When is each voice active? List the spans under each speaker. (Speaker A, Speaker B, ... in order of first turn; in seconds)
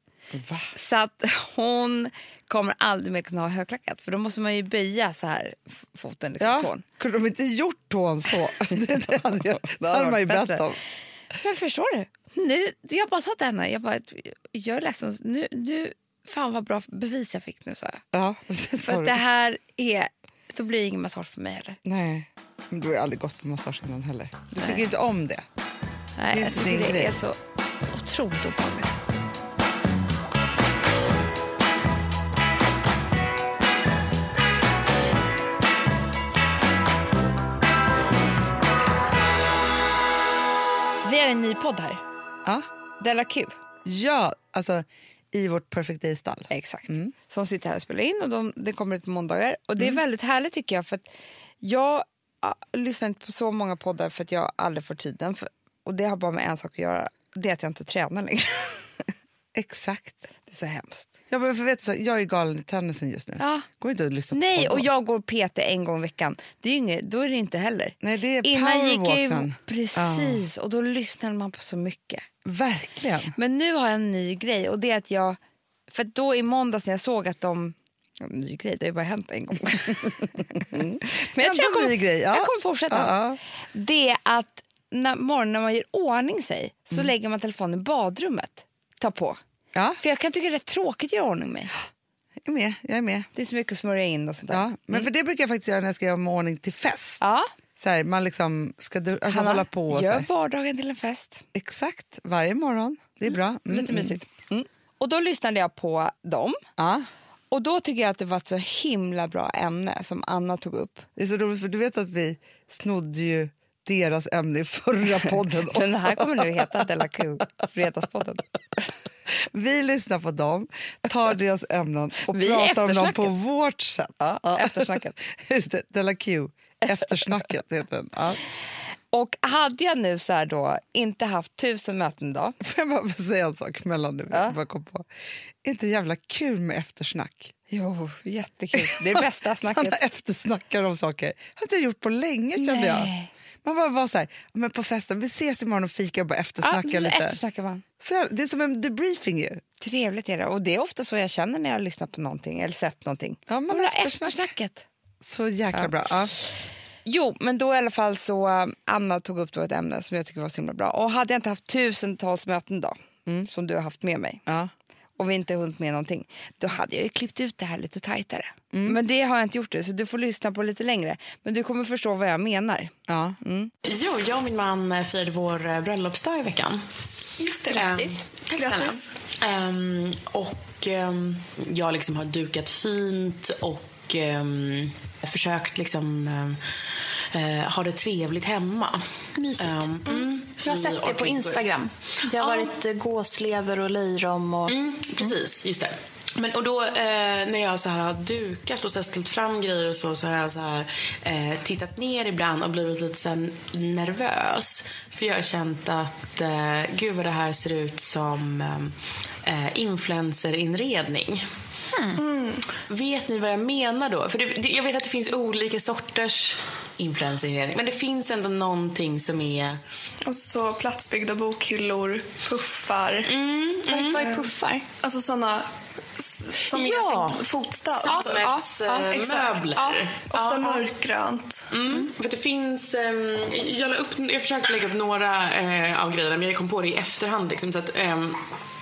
Speaker A: 0.3-0.7, 6.4-10.8, 18.1-19.2, 21.9-25.5, 26.3-27.2, 43.9-47.1, 59.5-60.2, 61.3-64.9, 68.0-70.4, 72.5-73.3, 80.7-83.4, 89.7-90.0, 92.4-93.3, 94.5-100.3, 101.5-104.2, 106.8-107.1, 111.2-116.8, 119.3-128.4, 132.6-135.1, 135.6-137.5, 138.8-143.1, 143.6-147.4, 148.0-149.6, 153.5-154.5, 155.2-156.3, 164.4-164.7, 168.7-169.0, 173.1-173.4
Speaker B: 0.7-6.8, 9.7-10.6, 11.4-18.0, 18.8-21.8, 24.6-24.9, 26.2-29.0, 41.0-42.0, 43.0-43.6, 46.5-51.1, 51.6-59.1, 60.5-61.1, 63.4-63.7, 64.3-72.3, 73.3-75.4, 75.9-83.2, 83.7-89.4, 90.0-91.7, 93.3-95.1, 97.2-97.5, 99.3-101.5, 103.7-106.6, 107.5-111.1, 115.7-118.9, 122.2-123.3, 124.2-125.2, 126.8-127.3, 129.1-132.6, 134.3-134.6, 137.7-140.0, 142.6-143.3, 146.6-147.8, 149.8-154.9, 157.1-164.4, 165.2-173.7
Speaker C: 173.8-176.8, 177.7-186.6, 187.3-192.8, 194.7-211.5, 212.9-219.8, 223.2-224.5, 226.7-227.4, 228.0-230.9, 231.7-238.4
Speaker D: 177.4-179.2, 212.1-212.6, 220.2-231.8
Speaker E: 189.3-189.9, 190.6-195.3, 224.1-224.6